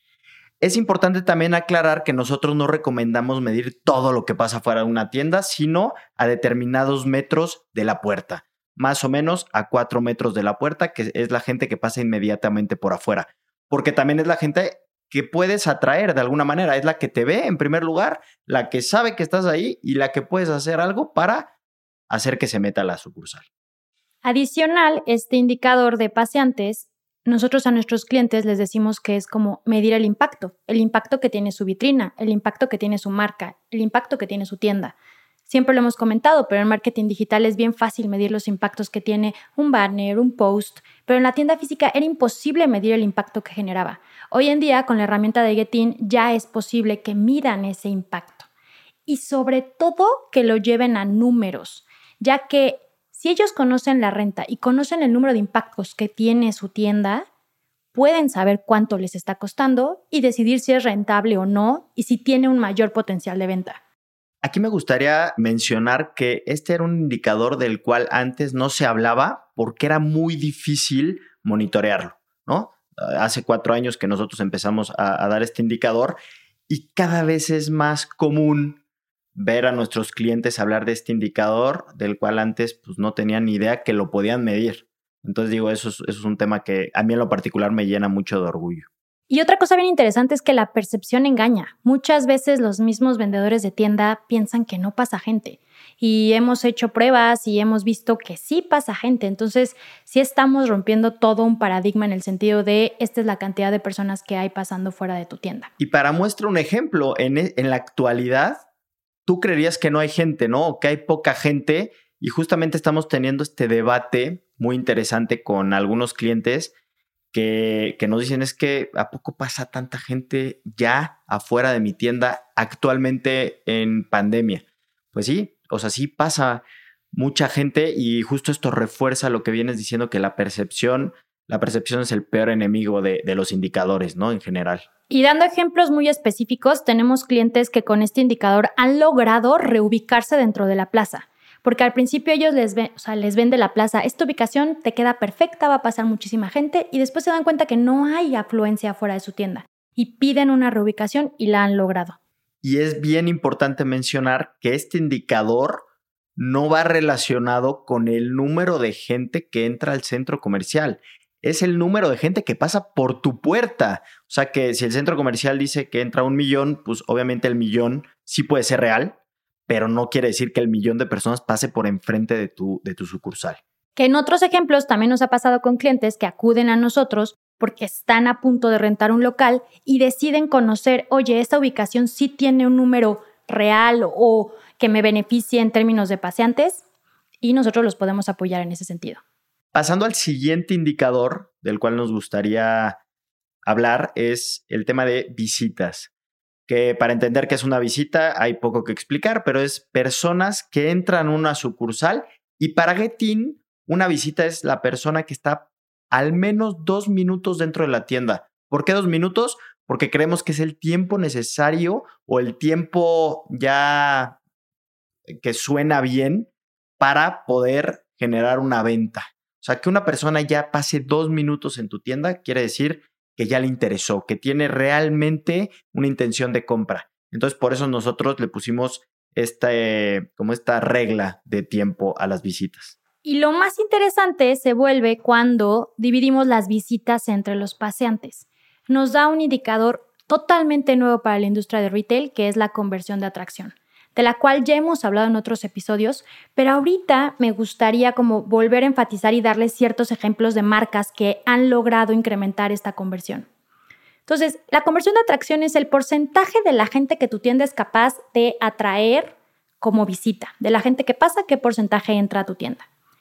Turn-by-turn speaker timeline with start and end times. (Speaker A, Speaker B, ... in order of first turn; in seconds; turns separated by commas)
Speaker A: 0.6-21.5, Speaker A: 22.1-23.5, Speaker B: 24.2-35.0, Speaker B: 35.5-48.5, Speaker B: 49.1-57.3, Speaker B: 57.9-63.8, Speaker A: 64.4-76.2, Speaker A: 76.7-78.8, Speaker A: 79.3-88.9, Speaker B: 89.3-105.7, Speaker A: 105.8-108.6, Speaker A: 109.3-116.7, Speaker A: 117.3-134.9, Speaker B: 135.1-152.2, Speaker A: 152.6-155.8, Speaker A: 156.4-169.2, Speaker A: 169.7-173.6, Speaker B: 174.0-186.8, Speaker B: 187.4-189.2, Speaker A: 189.7-193.0, Speaker A: 193.7-196.1, Speaker A: 196.7-214.4, Speaker A: 215.4-233.0, Speaker B: 233.2-253.5, Speaker B: 254.3-262.9